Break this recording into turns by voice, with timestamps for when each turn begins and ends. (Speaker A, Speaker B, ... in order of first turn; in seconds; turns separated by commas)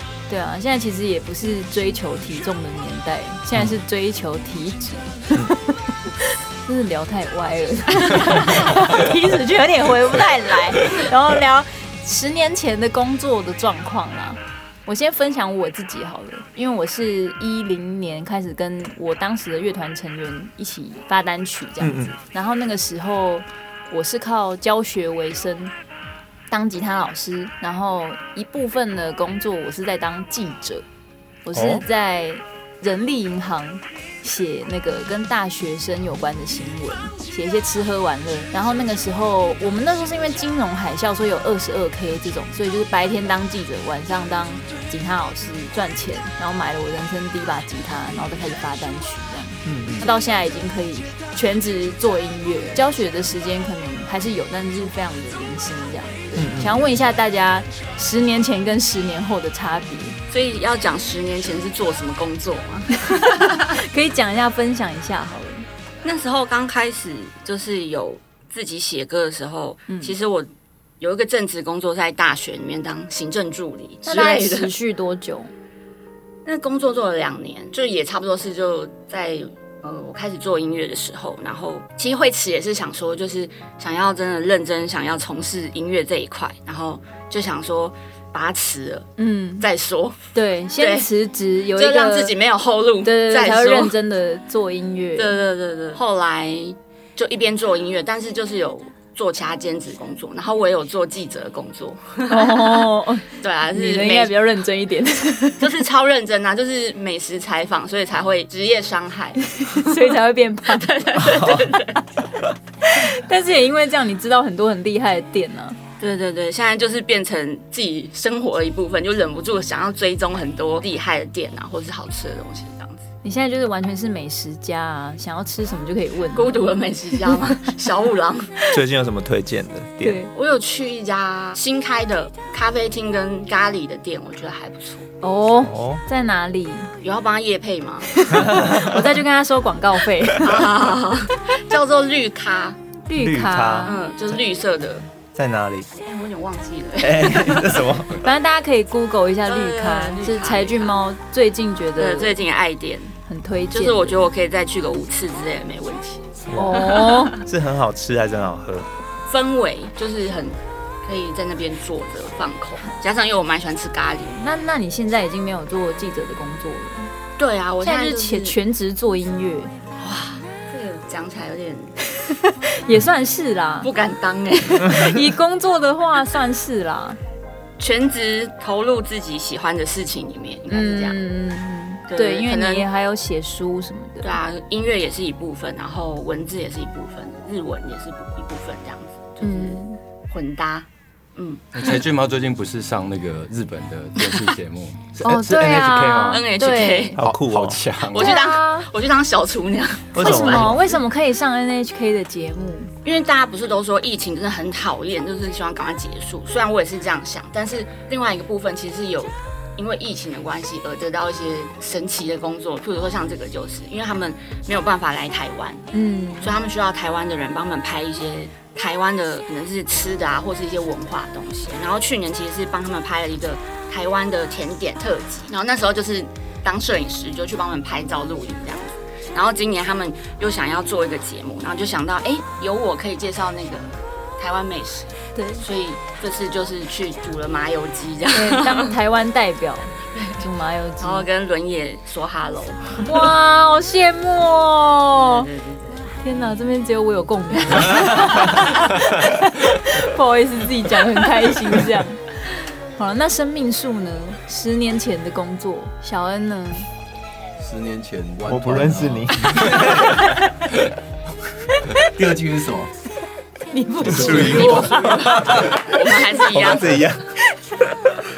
Speaker A: 0.3-25.7, Speaker B: 21.8-22.2, Speaker A: 26.5-30.9, Speaker A: 31.4-60.2, Speaker B: 31.5-31.8, Speaker B: 49.6-50.0, Speaker B: 56.4-56.9, Speaker C: 60.3-63.7, Speaker A: 63.0-65.7, Speaker C: 66.0-70.5, Speaker A: 69.9-70.2, Speaker C: 71.0-74.7, Speaker A: 74.1-75.5, Speaker C: 76.5-90.2, Speaker A: 89.2-89.7, Speaker A: 90.3-92.3, Speaker C: 90.8-91.1, Speaker C: 91.8-93.9, Speaker A: 93.0-95.4, Speaker C: 95.2-104.3, Speaker A: 102.3-105.7, Speaker C: 105.6-110.0, Speaker A: 109.5-111.2, Speaker C: 110.7-112.0, Speaker B: 111.2-111.7, Speaker A: 112.8-115.8, Speaker C: 116.0-123.0, Speaker A: 123.2-126.7, Speaker C: 126.3-128.7, Speaker B: 128.7-130.2, Speaker A: 130.0-130.3, Speaker C: 130.3-135.1, Speaker A: 135.2-136.9, Speaker B: 135.6-136.0, Speaker C: 137.0-138.1, Speaker A: 138.1-140.7, Speaker B: 138.3-139.2, Speaker C: 140.4-142.8, Speaker A: 143.1-144.0, Speaker B: 143.2-143.9, Speaker C: 143.9-145.1, Speaker B: 145.3-145.9, Speaker C: 145.9-148.0, Speaker B: 147.0-148.2, Speaker A: 148.1-152.4, Speaker C: 149.5-151.0, Speaker C: 152.0-153.2, Speaker A: 153.3-154.2, Speaker C: 153.7-156.2, Speaker B: 156.5-158.9, Speaker A: 156.6-157.4, Speaker C: 156.8-157.3, Speaker C: 159.3-164.4, Speaker A: 164.4-167.1, Speaker C: 167.4-168.6, Speaker A: 167.8-169.7, Speaker C: 170.0-172.1, Speaker A: 172.7-173.9, Speaker C: 173.8-175.2, Speaker A: 174.8-177.2, Speaker C: 177.8-181.2, Speaker A: 180.7-184.3, Speaker C: 182.1-182.9, Speaker C: 184.2-192.0, Speaker A: 189.4-190.0, Speaker D: 191.7-196.4, Speaker A: 195.2-197.1, Speaker C: 196.3-197.2, Speaker B: 197.2-197.8, Speaker D: 197.2-198.4, Speaker C: 198.1-200.7, Speaker A: 198.1-198.9, Speaker B: 200.1-200.8, Speaker A: 200.2-202.9, Speaker C: 203.0-215.9, Speaker A: 215.9-216.6, Speaker C: 216.4-238.9, Speaker A: 235.4-235.7, Speaker A: 238.3-241.3, Speaker C: 240.2-240.4, Speaker C: 241.0-243.2, Speaker A: 243.0-245.5, Speaker C: 245.1-246.1, Speaker A: 246.2-252.3, Speaker A: 253.0-256.9, Speaker E: 257.6-259.8, Speaker B: 258.5-260.1, Speaker A: 259.8-260.3, Speaker E: 262.1-262.9, Speaker A: 263.7-266.5, Speaker E: 264.1-265.8, Speaker D: 264.2-264.7, Speaker C: 265.2-267.0, Speaker B: 266.5-267.2